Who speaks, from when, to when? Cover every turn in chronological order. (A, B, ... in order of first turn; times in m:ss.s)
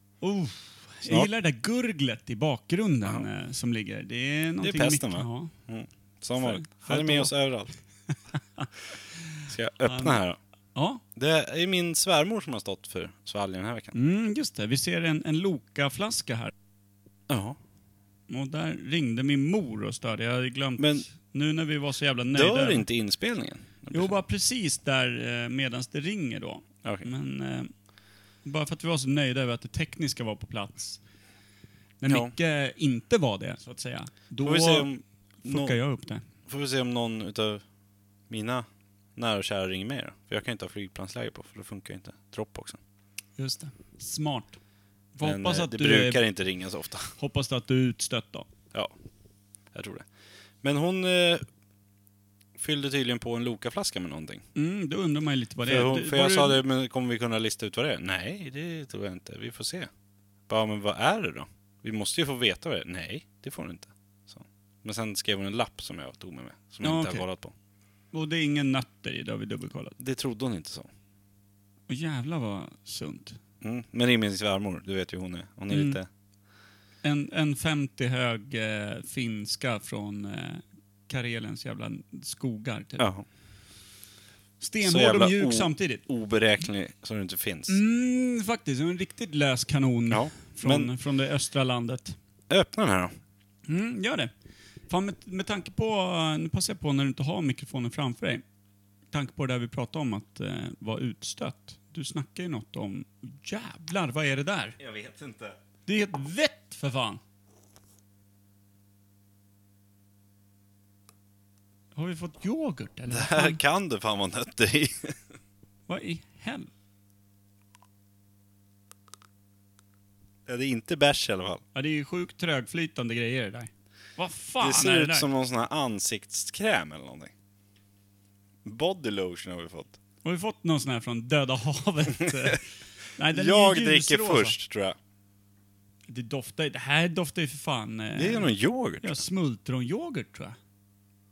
0:00.2-0:05.5 A
0:01.0-0:01.3 B
0:04.6-0:07.8 B
0:06.4-0:07.3 A
0:09.3-0:10.2 A
0:09.5-0:10.4 B
0:10.8-0:11.0 A
0:11.2-0:13.9 B
0:13.9-0:16.5 A
0:17.3-0:17.6 B
0:18.3-0:22.8 A
0:20.8-0:21.1 B
0:22.3-0:24.2 B
0:23.9-0:27.7 A
0:28.4-0:31.0 A
0:32.0-0:34.9 A
0:34.4-0:35.8 B
0:35.4-0:36.2 A
0:36.4-0:37.6 B
0:38.3-0:42.8 B
0:43.4-0:44.6 A
0:45.1-0:46.2 A
0:45.2-0:47.1 B
0:47.2-0:48.5 A
0:49.7-0:50.1 B
0:50.6-0:51.4 B
0:52.6-0:54.4 B
0:54.6-0:56.6 A
0:55.6-0:59.9 B
1:00.5-1:07.5 B
1:06.8-1:07.2 A
1:08.1-1:10.0 A
1:10.0-1:10.9 B
1:11.9-1:13.4 A
1:13.6-1:16.1 B
1:15.7-1:16.0 A
1:17.0-1:23.1 A
1:23.0-1:23.2 B
1:24.6-1:26.0 A
1:24.8-1:27.8 B
1:27.7-1:32.2 A
1:30.1-1:30.9 B
1:32.5-1:33.1 B
1:33.6-1:34.3 A
1:34.9-1:38.4 A
1:39.1-1:44.8 A
1:44.8-1:45.6 B
1:45.9-1:47.2 A
1:51.9-1:53.6 A
1:53.1-1:55.2 B
1:55.9-1:56.7 A
2:00.4-2:01.6 B
2:01.8-2:05.3 A
2:04.6-2:07.3 B
2:08.6-2:10.0 B
2:10.2-2:12.6 A
2:12.2-2:12.6 B
2:13.1-2:14.6 A
2:13.2-2:15.0 B
2:16.1-2:20.6 A
2:18.2-2:19.2 B